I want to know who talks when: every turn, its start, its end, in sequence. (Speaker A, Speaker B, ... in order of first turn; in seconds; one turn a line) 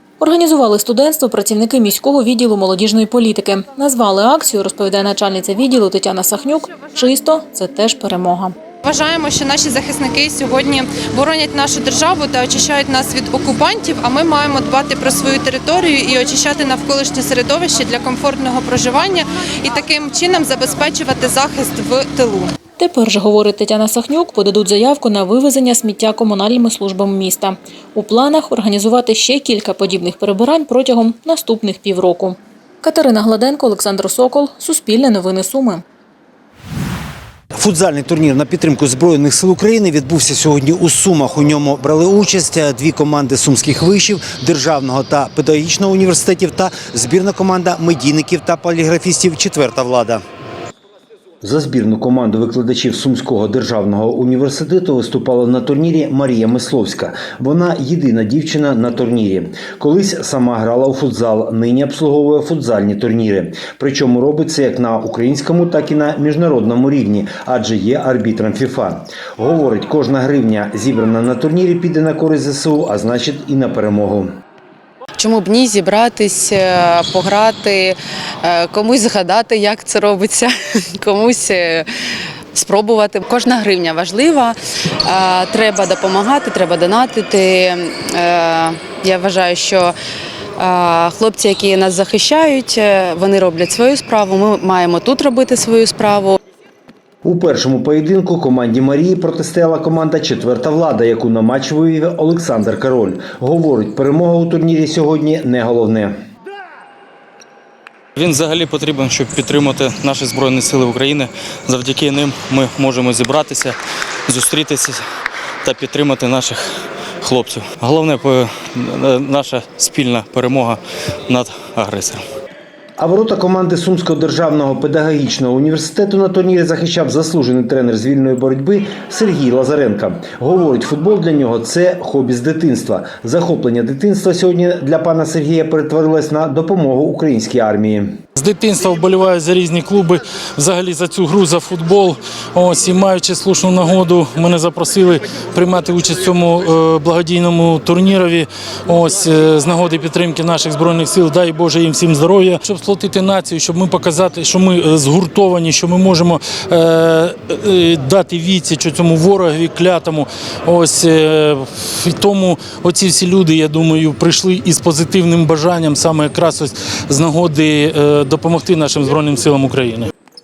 Speaker A: 0.2-8.6
Speaker B: 8.8-22.5
Speaker A: 22.8-35.8
Speaker C: 37.5-50.2
Speaker C: 51.4-74.3
Speaker D: 75.2-81.9
Speaker D: 82.5-90.0
Speaker D: 90.6-96.4
Speaker C: 97.2-106.1
Speaker E: 108.2-113.8
Speaker E: 114.3-115.0
Speaker E: 115.7-116.6
Speaker E: 117.2-120.8
Speaker E: 121.3-122.2
Speaker C: 123.0-138.2
Speaker F: 138.4-170.1